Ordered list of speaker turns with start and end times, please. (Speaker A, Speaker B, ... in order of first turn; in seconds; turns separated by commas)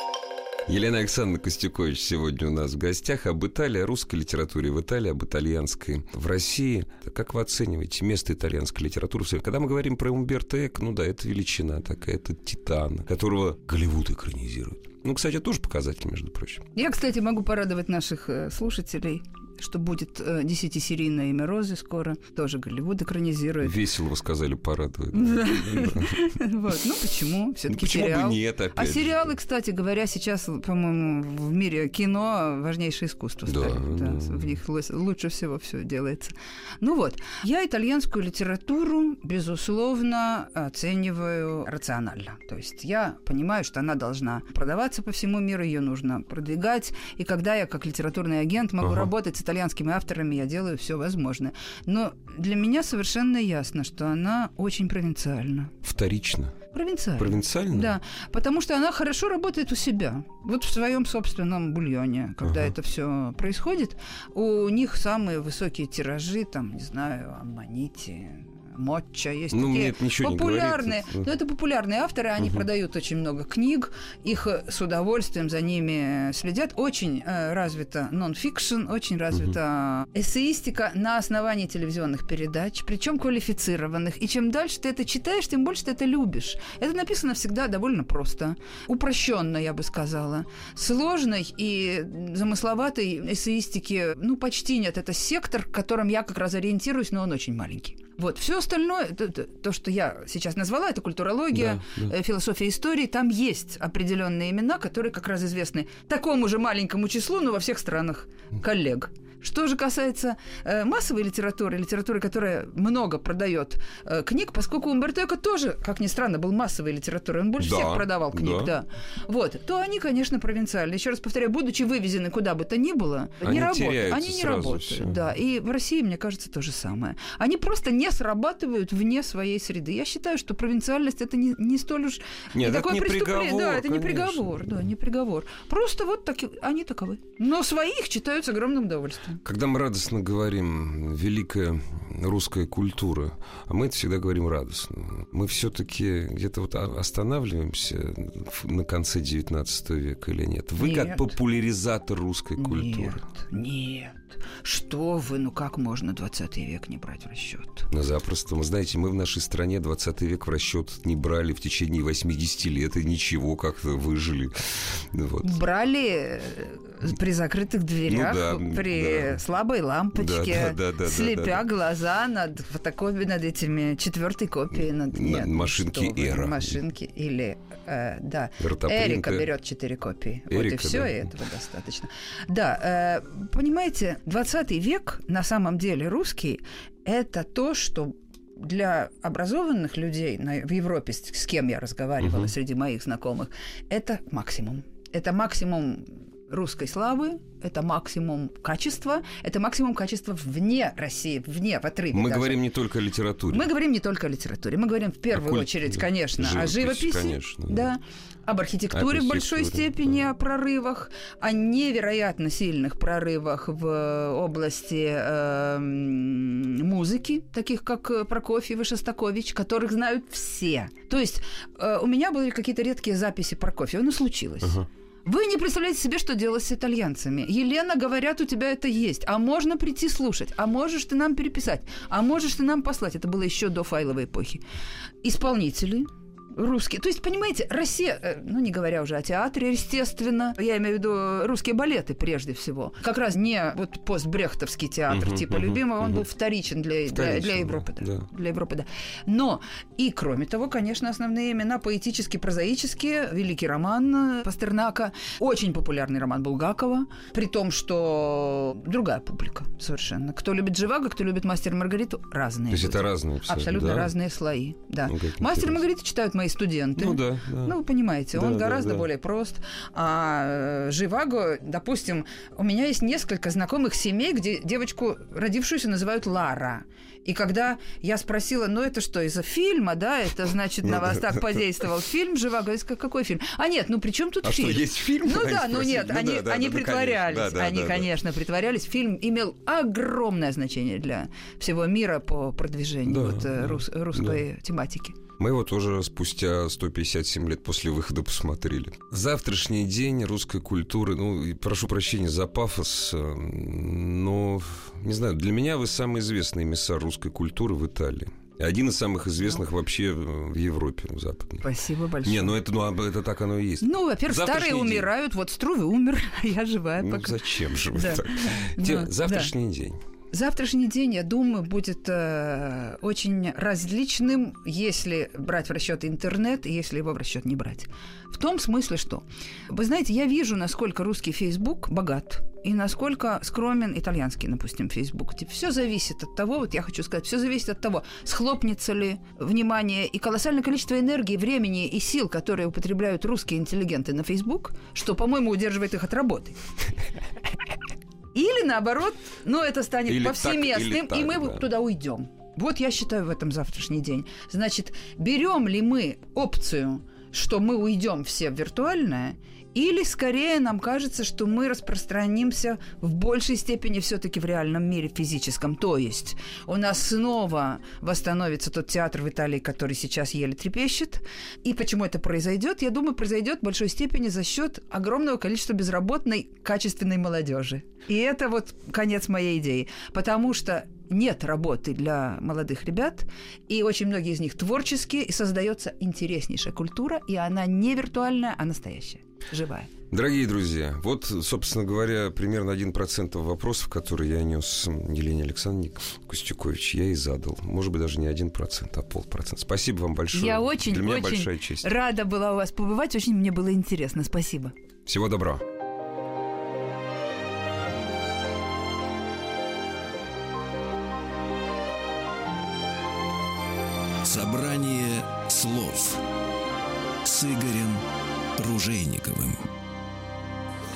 Speaker A: 0.7-16.6, Speaker B: 16.8-23.8, Speaker A: 23.6-26.3, Speaker B: 25.1-55.8, Speaker A: 27.7-29.4, Speaker A: 33.5-34.6, Speaker A: 48.8-49.1, Speaker A: 55.8-56.6, Speaker B: 56.7-139.4, Speaker A: 57.2-58.0, Speaker A: 62.4-62.7, Speaker A: 69.5-71.3, Speaker A: 101.5-102.1, Speaker A: 117.6-118.7, Speaker A: 123.4-125.2, Speaker A: 132.5-134.9, Speaker A: 139.4-153.2, Speaker B: 150.8-151.3, Speaker B: 152.6-157.9, Speaker A: 157.9-165.6, Speaker B: 165.4-202.6, Speaker A: 168.1-169.4, Speaker A: 170.2-171.6, Speaker A: 175.1-176.8, Speaker A: 178.6-179.5, Speaker A: 180.5-181.3, Speaker A: 192.2-192.5, Speaker A: 202.1-203.7, Speaker B: 203.5-234.6, Speaker A: 205.3-207.9, Speaker A: 208.9-210.2, Speaker B: 235.2-295.2, Speaker A: 245.1-246.2, Speaker A: 247.1-248.3, Speaker A: 262.7-264.1, Speaker A: 265.1-265.8, Speaker A: 267.0-267.8, Speaker A: 268.3-269.1, Speaker A: 280.8-281.6, Speaker A: 284.4-288.1, Speaker A: 293.1-294.4, Speaker A: 295.4-311.7, Speaker B: 311.6-312.6, Speaker A: 312.2-315.1, Speaker B: 313.8-319.5, Speaker A: 317.0-320.0, Speaker B: 320.3-346.6, Speaker B: 348.3-389.9, Speaker A: 350.1-351.7, Speaker A: 390.1-401.9, Speaker B: 400.3-404.7, Speaker A: 405.1-405.6, Speaker C: 414.2-416.2, Speaker C: 417.2-418.0, Speaker C: 418.6-419.7